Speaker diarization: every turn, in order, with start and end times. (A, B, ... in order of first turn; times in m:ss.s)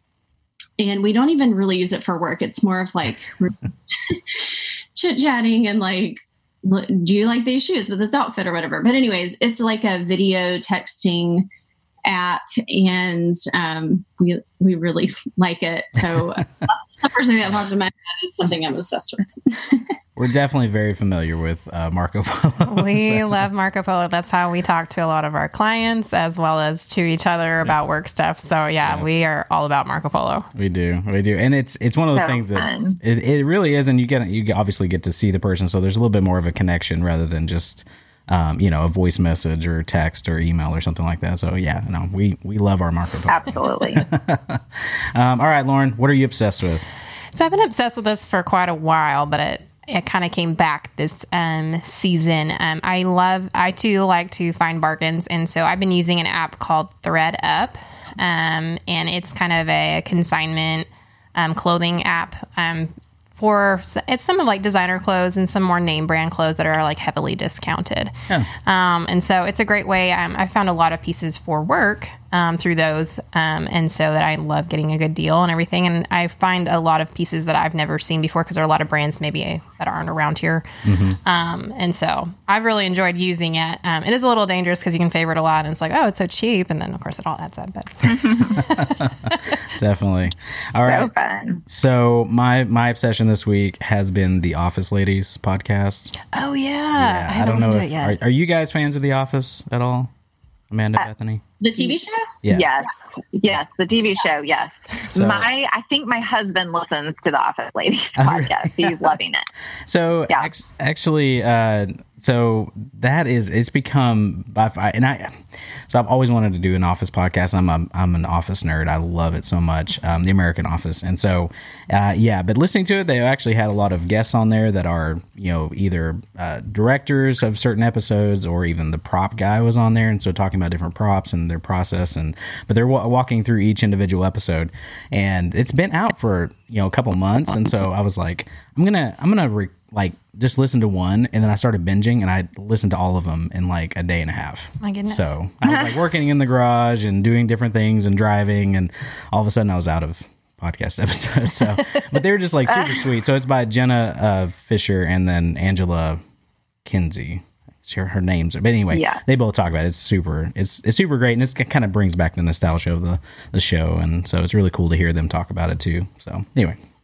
0:00.8-0:11.5 A
0:12.0-0:19.9 A
0:20.2-0:23.5 B
0:22.7-0:30.5 C
0:28.8-0:29.1 B
0:30.5-0:46.8 B
0:32.1-0:33.0 D
0:43.3-0:44.1 D
0:47.3-1:20.6 C
1:20.8-1:21.2 B
1:21.2-1:29.4 C
1:28.1-1:28.6 D
1:28.6-1:31.1 B
1:30.8-1:31.6 D
1:31.6-1:36.1 B
1:36.3-1:38.2 C
1:36.9-1:40.1 B
1:40.7-1:41.4 B
1:41.6-1:42.3 A
1:42.5-1:49.5 D
1:45.1-1:45.5 B
1:48.2-1:49.2 B
1:49.9-2:36.2 B
2:24.8-2:25.3 C
2:32.7-2:33.0 D
2:36.8-2:46.8 B
2:38.9-2:39.2 D